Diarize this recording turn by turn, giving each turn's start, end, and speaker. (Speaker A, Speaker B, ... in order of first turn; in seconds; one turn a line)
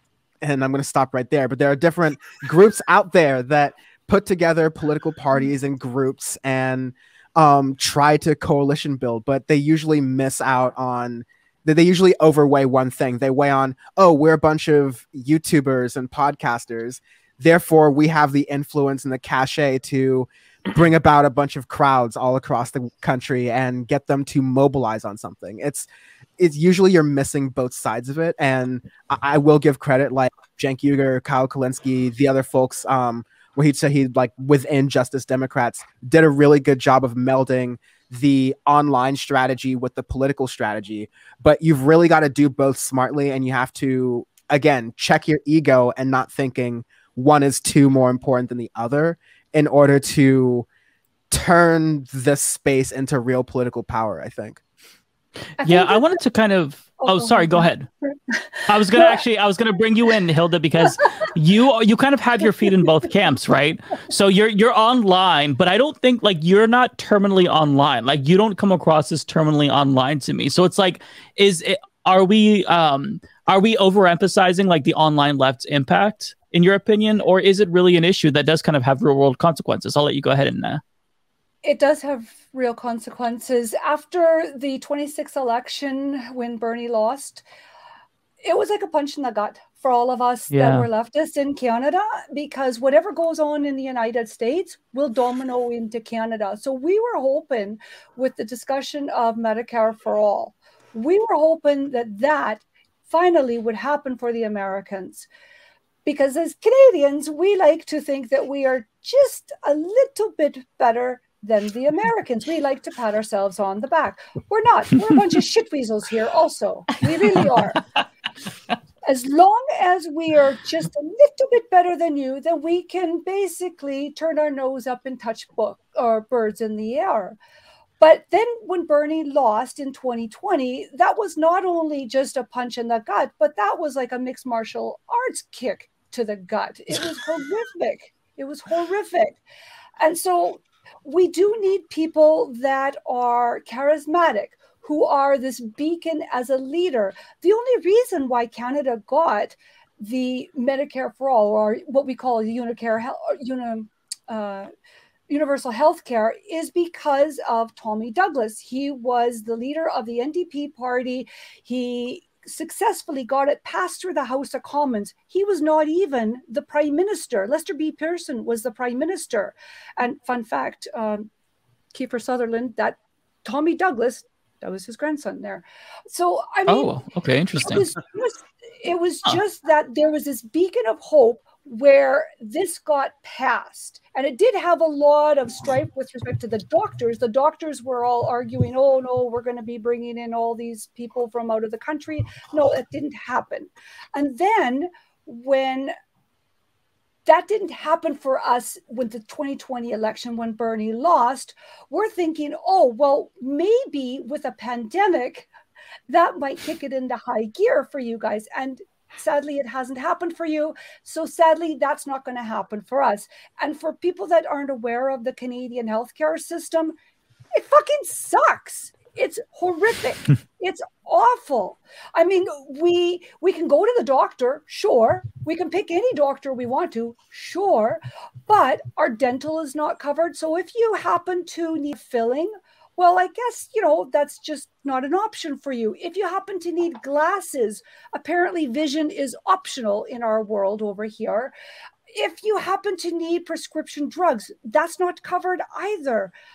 Speaker A: 0.4-25.9
Speaker A: 26.4-50.7
Speaker A: 51.3-54.6
Speaker B: 55.6-56.2
Speaker C: 55.6-57.9
Speaker B: 57.0-57.6
Speaker B: 58.3-59.2
Speaker C: 58.7-80.8
Speaker B: 81.6-87.4
Speaker B: 88.4-105.3
Speaker C: 90.5-90.9
Speaker B: 106.0-117.8
Speaker B: 119.1-127.4
Speaker B: 128.0-139.4
Speaker B: 140.0-154.7
Speaker B: 155.3-171.3
Speaker B: 171.9-176.9
Speaker C: 176.7-177.9
Speaker B: 177.6-195.9
Speaker B: 197.3-205.5
Speaker B: 206.1-216.9
Speaker B: 217.6-241.5
Speaker B: 242.1-246.3